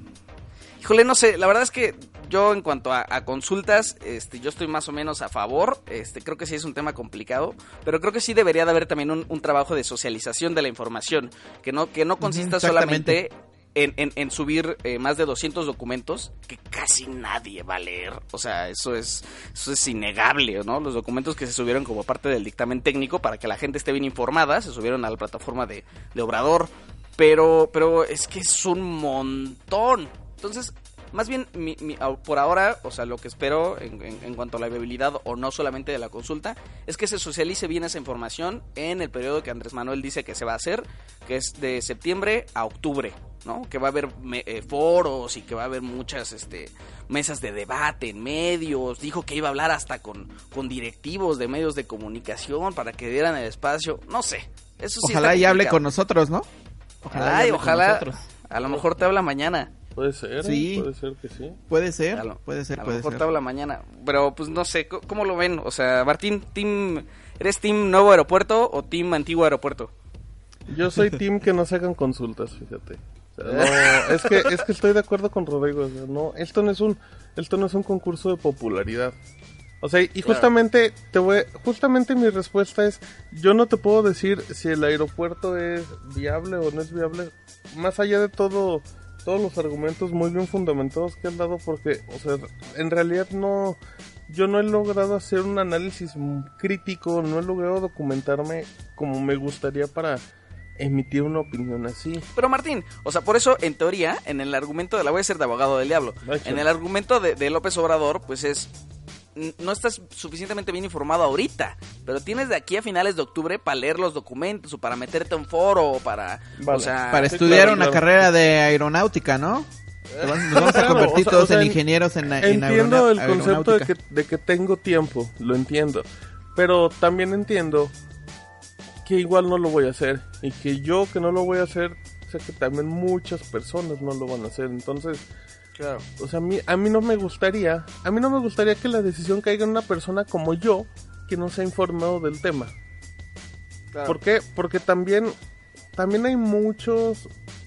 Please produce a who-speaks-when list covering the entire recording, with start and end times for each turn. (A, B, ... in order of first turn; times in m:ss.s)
0:00.8-0:55.8 A
0:12.2-0:13.2 B
0:55.0-0:56.5 B
0:57.0-0:58.2 B
0:57.1-0:59.7 A
1:00.0-1:01.6 C
1:00.4-1:00.9 B
1:01.7-1:03.3 B
1:02.1-1:09.9 A
1:10.7-1:19.2 C
1:13.5-1:14.6 A
1:19.8-1:40.2 C
1:40.8-1:42.3 C
1:42.4-1:48.7 A
1:46.2-1:46.6 C
1:49.4-1:58.0 A
1:56.6-1:58.1 C
1:57.1-2:03.9 B
2:00.2-2:01.8 C
2:02.4-2:07.9 C
2:09.0-2:15.2 C
2:15.8-2:16.0 A
2:16.2-2:22.7 C
2:23.9-2:24.2 A
2:24.1-2:25.4 C
2:26.0-2:27.3 C